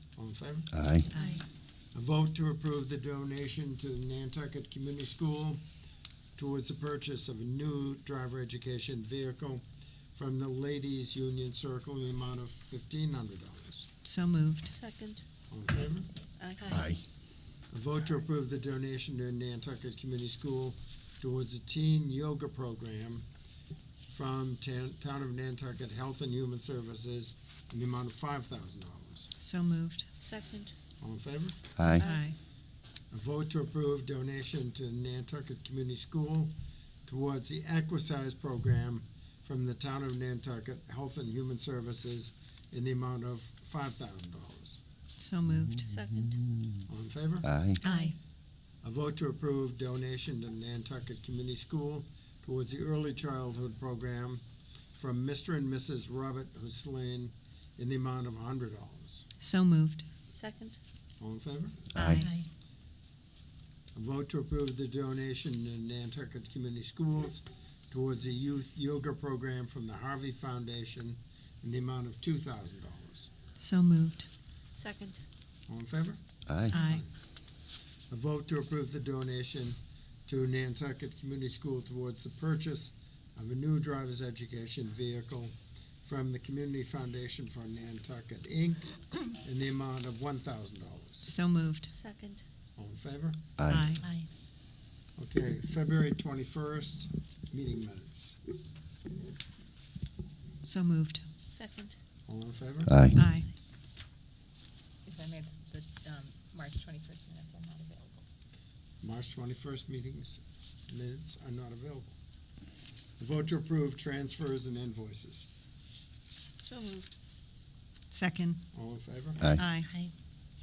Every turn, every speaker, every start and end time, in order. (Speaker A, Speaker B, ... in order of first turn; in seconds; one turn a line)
Speaker A: 0.2-0.7
Speaker B: 0.7-1.1
Speaker C: 1.1-1.4
Speaker A: 1.9-5.6
Speaker A: 6.4-9.6
Speaker A: 10.2-13.9
Speaker C: 14.1-14.8
Speaker D: 14.7-15.2
Speaker A: 15.5-16.1
Speaker D: 16.4-16.9
Speaker B: 16.7-17.0
Speaker A: 17.7-23.3
Speaker A: 24.1-29.3
Speaker C: 29.4-30.1
Speaker D: 30.2-30.8
Speaker A: 31.0-32.2
Speaker B: 31.8-32.0
Speaker D: 32.0-32.3
Speaker C: 32.0-32.4
Speaker A: 33.1-36.5
Speaker A: 37.1-44.8
Speaker C: 45.2-45.9
Speaker B: 45.5-46.9
Speaker D: 45.9-46.4
Speaker A: 46.9-47.5
Speaker B: 47.4-47.8
Speaker C: 47.8-48.1
Speaker A: 48.8-54.4
Speaker A: 55.0-59.2
Speaker C: 59.4-60.1
Speaker D: 60.3-60.8
Speaker A: 61.2-61.9
Speaker B: 62.0-62.3
Speaker C: 62.0-62.3
Speaker A: 64.0-73.3
Speaker C: 73.6-74.3
Speaker D: 74.8-75.2
Speaker A: 75.7-77.1
Speaker B: 76.5-76.8
Speaker C: 76.7-77.0
Speaker A: 78.1-91.3
Speaker C: 91.2-91.9
Speaker D: 91.9-92.5
Speaker A: 92.8-93.4
Speaker B: 93.6-94.0
Speaker C: 93.7-94.0
Speaker D: 94.0-94.3
Speaker A: 95.2-98.4
Speaker C: 100.6-101.3
Speaker D: 101.5-102.0
Speaker A: 102.3-103.2
Speaker B: 102.9-103.2
Speaker C: 103.2-103.5
Speaker E: 105.0-108.2
Speaker A: 109.0-112.2
Speaker A: 113.2-115.5
Speaker D: 116.6-117.1
Speaker C: 118.1-118.7
Speaker A: 118.7-119.6
Speaker B: 119.4-119.6
Speaker C: 119.6-119.9